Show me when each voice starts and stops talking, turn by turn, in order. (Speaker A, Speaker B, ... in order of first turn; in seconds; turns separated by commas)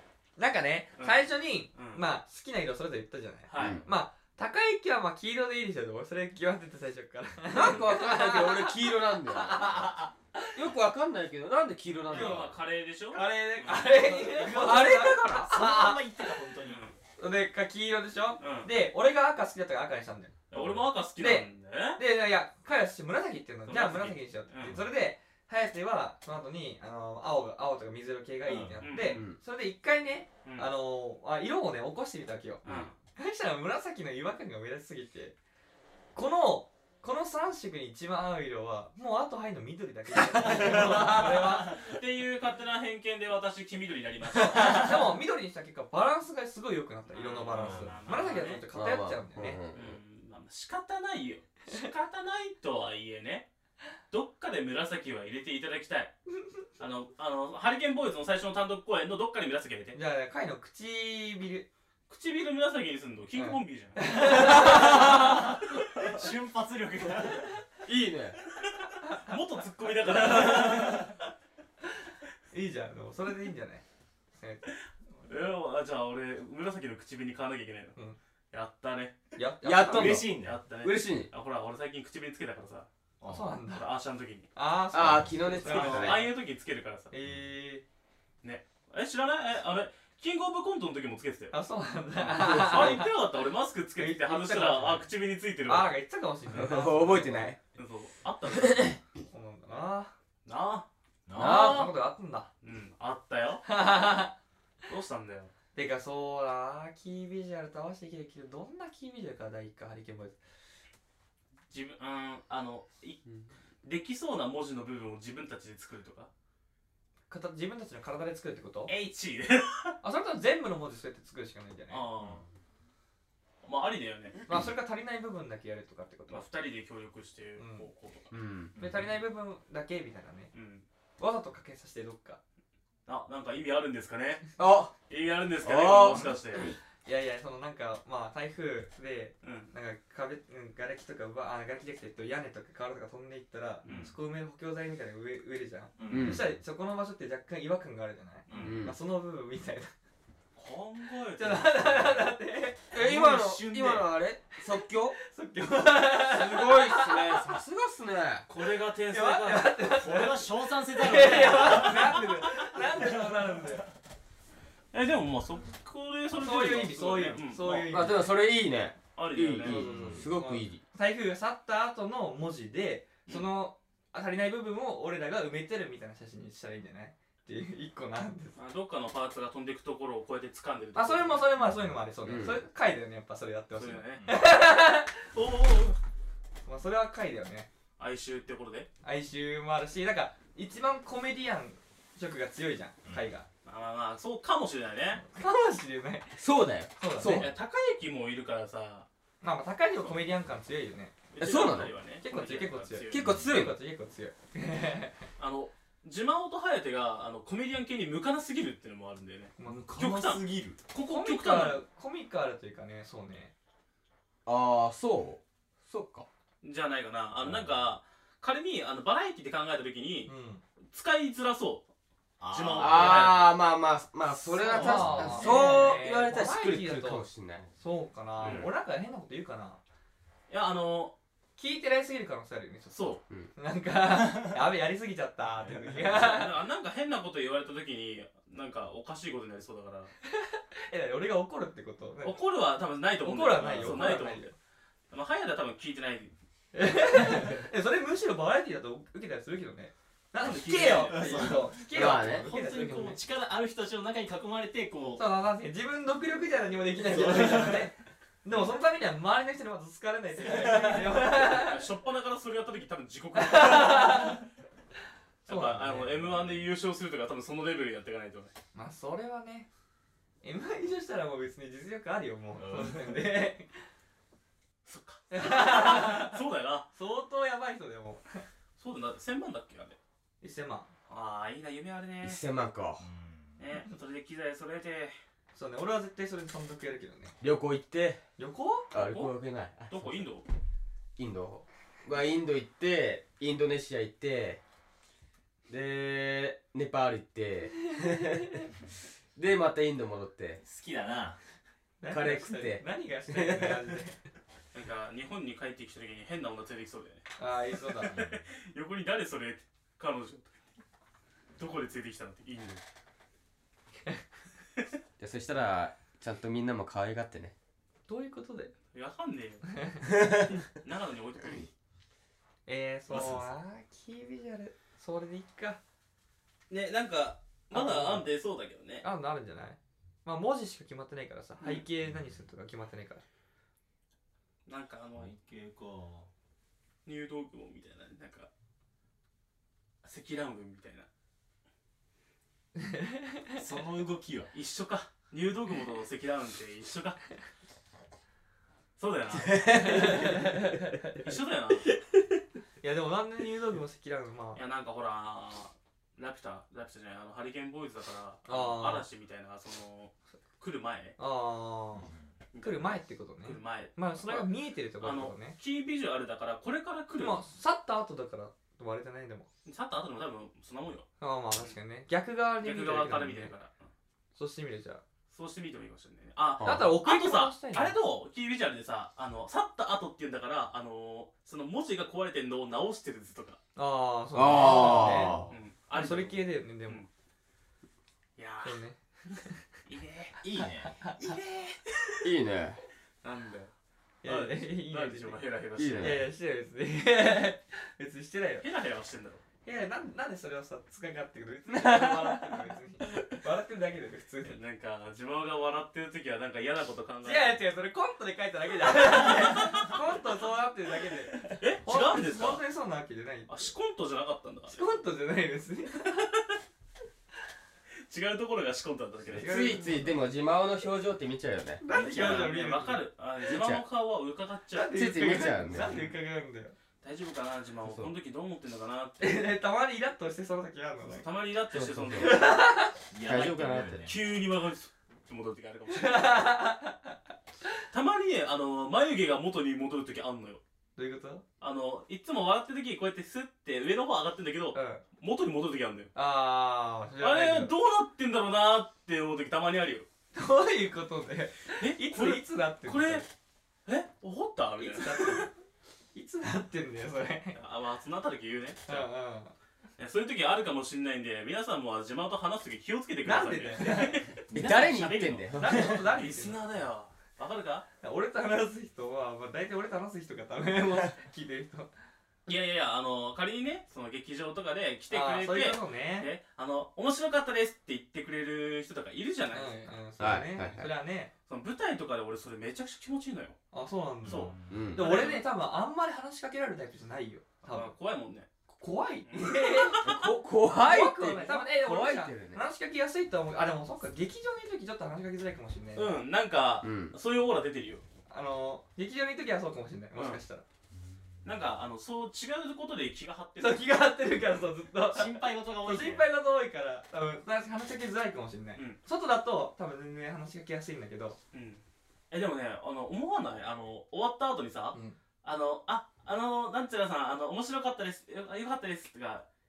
Speaker A: 0.4-10.6, Speaker B: 1.7-2.0, Speaker B: 3.5-3.9, Speaker C: 3.6-3.8, Speaker C: 7.5-9.9, Speaker C: 10.5-12.5, Speaker B: 12.1-14.0, Speaker A: 12.1-12.5, Speaker A: 13.1-16.3, Speaker C: 13.1-15.5, Speaker D: 13.9-16.8, Speaker B: 16.6-17.0, Speaker A: 17.2-20.4, Speaker B: 18.4-18.7, Speaker B: 20.5-22.0, Speaker D: 20.5-20.8, Speaker A: 21.1-32.6, Speaker B: 23.7-24.8, Speaker D: 28.4-28.8, Speaker B: 28.8-29.2, Speaker C: 29.0-29.4, Speaker B: 30.4-30.7, Speaker B: 32.6-32.9, Speaker A: 33.1-35.3, Speaker A: 36.1-41.8, Speaker D: 40.4-41.3, Speaker B: 40.5-45.1, Speaker A: 44.4-49.6, Speaker B: 47.1-48.6, Speaker D: 47.5-47.9, Speaker C: 48.7-50.0, Speaker B: 49.7-53.5, Speaker B: 54.1-56.1, Speaker B: 56.8-60.0, Speaker A: 59.9-61.7, Speaker B: 62.1-64.9, Speaker A: 63.3-65.6, Speaker D: 64.2-67.6, Speaker C: 67.8-68.4, Speaker B: 68.7-71.1, Speaker A: 69.0-69.3, Speaker A: 70.0-71.1, Speaker A: 72.5-73.8, Speaker A: 74.3-74.7, Speaker B: 75.2-78.0, Speaker B: 78.5-79.2, Speaker A: 79.3-80.2, Speaker C: 79.6-81.3, Speaker D: 79.9-80.6, Speaker B: 80.4-82.9, Speaker D: 83.2-83.5, Speaker A: 83.3-83.9, Speaker B: 83.7-84.5, Speaker A: 84.5-86.3, Speaker C: 84.9-86.3, Speaker D: 85.0-85.3, Speaker B: 85.6-87.1, Speaker A: 87.1-87.8, Speaker B: 88.4-91.5, Speaker A: 91.5-93.2, Speaker B: 92.2-95.9, Speaker C: 92.4-93.0, Speaker A: 94.0-95.1, Speaker A: 95.6-97.5, Speaker C: 96.5-97.6, Speaker B: 97.7-99.0, Speaker C: 98.6-98.9, Speaker A: 99.3-100.1, Speaker B: 100.4-100.9, Speaker D: 101.3-101.9, Speaker C: 101.3-101.9, Speaker A: 101.3-102.5, Speaker B: 102.6-103.6, Speaker A: 103.6-104.3, Speaker B: 104.9-105.5, Speaker A: 105.7-110.4, Speaker B: 111.7-113.2, Speaker B: 113.8-116.3, Speaker A: 117.3-118.9, Speaker B: 118.9-119.9, Speaker A: 120.0-122.0, Speaker B: 121.9-122.4, Speaker B: 123.6-124.4, Speaker A: 124.5-126.5, Speaker B: 126.3-128.3, Speaker A: 127.6-127.9, Speaker C: 128.3-128.7, Speaker D: 128.7-129.1, Speaker A: 128.8-130.5, Speaker B: 130.5-130.8, Speaker A: 131.2-132.4, Speaker B: 133.1-134.5, Speaker C: 134.6-134.9, Speaker B: 135.1-136.7, Speaker C: 135.6-136.7, Speaker A: 137.0-149.9, Speaker B: 139.4-139.7, Speaker B: 143.8-144.1, Speaker D: 146.0-146.5, Speaker C: 146.1-146.4, Speaker D: 148.5-148.8, Speaker B: 148.5-148.8, Speaker C: 148.6-148.9, Speaker B: 150.5-152.3, Speaker A: 151.3-152.9, Speaker C: 152.9-155.2, Speaker D: 152.9-154.1, Speaker A: 154.7-157.5, Speaker C: 156.2-158.5, Speaker B: 158.5-159.8, Speaker A: 159.1-163.8, Speaker D: 159.9-163.8, Speaker B: 161.5-162.6, Speaker B: 164.9-168.0, Speaker A: 166.3-168.3, Speaker C: 167.9-170.8, Speaker B: 169.2-169.9, Speaker A: 169.6-178.6, Speaker D: 169.7-170.3, Speaker B: 178.5-181.5, Speaker A: 180.9-185.7, Speaker C: 182.2-182.6, Speaker B: 183.7-184.3, Speaker D: 184.2-184.4, Speaker B: 185.3-185.9, Speaker A: 186.6-187.7, Speaker B: 188.0-188.9, Speaker A: 189.0-193.5, Speaker B: 193.6-195.2, Speaker A: 195.3-196.4, Speaker C: 196.4-197.5, Speaker A: 197.0-197.5, Speaker B: 197.2-199.1, Speaker A: 199.4-201.1, Speaker B: 201.3-203.3, Speaker C: 201.4-201.9, Speaker A: 202.2-205.2, Speaker C: 203.1-203.8, Speaker D: 203.2-203.5, Speaker B: 205.4-211.8, Speaker A: 209.6-210.3, Speaker D: 209.6-210.8, Speaker A: 210.9-213.5, Speaker C: 214.4-216.2, Speaker B: 216.6-220.3, Speaker D: 217.4-217.8, Speaker A: 220.2-220.6, Speaker B: 220.9-221.8, Speaker D: 222.4-223.4, Speaker B: 222.5-223.5, Speaker C: 222.8-227.7, Speaker A: 224.4-229.8, Speaker D: 224.7-225.8, Speaker B: 224.9-225.8, Speaker D: 228.4-228.7, Speaker B: 228.4-228.7, Speaker B: 230.5-231.1, Speaker A: 231.6-236.5, Speaker B: 232.9-233.2, Speaker D: 235.6-236.1, Speaker B: 236.0-240.1, Speaker A: 240.2-242.4, Speaker B: 242.2-244.5, Speaker A: 243.2-244.5, Speaker D: 243.6-244.1, Speaker B: 245.1-246.3, Speaker A: 246.7-253.2, Speaker B: 250.4-251.6, Speaker D: 250.9-255.2, Speaker C: 251.9-252.5, Speaker A: 255.2-261.9, Speaker D: 257.1-257.9, Speaker D: 260.7-261.0, Speaker B: 261.2-264.4, Speaker A: 263.3-264.4, Speaker A: 265.4-266.6, Speaker B: 265.4-268.5, Speaker A: 268.7-269.7, Speaker A: 270.4-273.7, Speaker D: 272.5-273.3, Speaker B: 274.9-276.9, Speaker A: 275.3-276.4, Speaker A: 276.9-278.4, Speaker B: 278.8-280.0, Speaker A: 280.4-280.9, Speaker B: 281.1-282.4, Speaker C: 282.2-283.0, Speaker D: 283.0-283.6, Speaker B: 283.6-285.1, Speaker A: 285.5-287.4, Speaker C: 287.4-288.2, Speaker A: 288.4-288.9, Speaker C: 288.9-290.3, Speaker B: 288.9-289.3, Speaker B: 289.9-290.4, Speaker C: 291.2-294.6, Speaker C: 295.7-298.7, Speaker C: 299.4-300.6, Speaker D: 300.6-301.4, Speaker A: 302.0-304.2, Speaker C: 302.1-304.0, Speaker B: 304.7-310.5, Speaker A: 307.4-308.1, Speaker D: 308.1-308.4, Speaker B: 311.6-312.8, Speaker C: 315.2-317.5, Speaker A: 318.1-318.7, Speaker B: 318.9-321.7, Speaker A: 322.6-325.8, Speaker D: 323.1-323.5, Speaker B: 326.7-329.0, Speaker A: 327.7-328.3, Speaker A: 329.0-333.2, Speaker B: 334.6-335.3, Speaker D: 335.1-336.3, Speaker B: 337.0-338.5, Speaker B: 340.0-341.1, Speaker A: 342.8-343.5, Speaker D: 343.6-344.5, Speaker B: 344.5-347.2, Speaker B: 349.0-350.3, Speaker C: 349.5-350.5, Speaker A: 349.6-351.2, Speaker B: 351.2-351.9, Speaker A: 352.8-354.6, Speaker B: 354.5-361.1, Speaker A: 358.4-359.0, Speaker A: 361.2-362.1, Speaker D: 362.1-362.4, Speaker B: 362.5-367.4, Speaker A: 362.6-365.6, Speaker A: 367.2-369.5, Speaker B: 369.6-371.1, Speaker A: 371.2-373.5, Speaker B: 372.6-373.7, Speaker A: 374.3-375.0, Speaker B: 375.3-383.6, Speaker C: 376.6-376.9, Speaker A: 376.6-378.0, Speaker A: 383.8-387.0, Speaker C: 384.3-385.5, Speaker B: 384.5-387.1, Speaker B: 388.4-388.8, Speaker A: 388.6-389.6, Speaker B: 389.9-390.4, Speaker D: 390.4-391.0, Speaker A: 391.0-391.3, Speaker B: 391.2-392.3, Speaker C: 392.2-392.8, Speaker B: 393.2-393.7, Speaker A: 394.2-395.4, Speaker B: 394.2-396.3, Speaker C: 395.8-396.3, Speaker A: 396.0-398.7, Speaker B: 398.6-399.4, Speaker A: 399.6-404.6, Speaker C: 401.7-403.4, Speaker B: 404.4-407.6, Speaker A: 407.2-413.7, Speaker B: 409.1-409.9, Speaker B: 411.5-412.6, Speaker B: 413.5-414.8, Speaker A: 414.7-416.3, Speaker B: 418.1-419.8, Speaker A: 419.3-420.2, Speaker C: 419.3-421.8, Speaker A: 421.8-423.0, Speaker B: 421.9-426.2, Speaker D: 421.9-422.5, Speaker C: 423.4-423.8, Speaker A: 424.7-426.8, Speaker C: 424.9-425.9, Speaker B: 427.0-429.4, Speaker C: 427.8-428.1, Speaker A: 429.2-431.3, Speaker B: 431.0-432.5, Speaker C: 431.7-432.4, Speaker A: 432.2-433.0, Speaker D: 433.1-434.2, Speaker C: 433.2-434.1, Speaker B: 434.0-436.5, Speaker A: 435.9-437.1, Speaker B: 437.9-440.6, Speaker A: 440.9-441.4, Speaker B: 441.6-446.1, Speaker A: 444.7-445.0, Speaker A: 446.1-447.7, Speaker B: 447.2-450.1, Speaker A: 450.3-453.2, Speaker B: 451.8-453.2, Speaker B: 453.9-455.5, Speaker A: 454.8-455.5, Speaker A: 456.1-457.6, Speaker B: 457.5-459.1, Speaker A: 458.9-459.5, Speaker B: 460.0-467.9, Speaker A: 463.2-464.2, Speaker D: 463.8-466.0, Speaker C: 464.5-466.0, Speaker A: 465.6-466.6, Speaker A: 468.0-471.9, Speaker B: 472.5-479.9, Speaker A: 475.1-476.3, Speaker A: 479.5-481.3, Speaker C: 480.2-480.9, Speaker B: 481.5-483.6, Speaker A: 483.7-487.9, Speaker D: 484.2-485.1, Speaker B: 484.2-485.4, Speaker C: 484.7-485.3, Speaker B: 487.7-488.5, Speaker A: 488.8-490.1, Speaker B: 489.2-490.2, Speaker C: 490.0-492.6, Speaker A: 490.8-496.2, Speaker B: 495.9-498.0, Speaker C: 496.8-497.1, Speaker A: 498.3-500.6, Speaker B: 500.1-500.4, Speaker B: 501.4-503.9, Speaker A: 503.6-511.4, Speaker D: 505.1-506.3, Speaker B: 511.5-519.5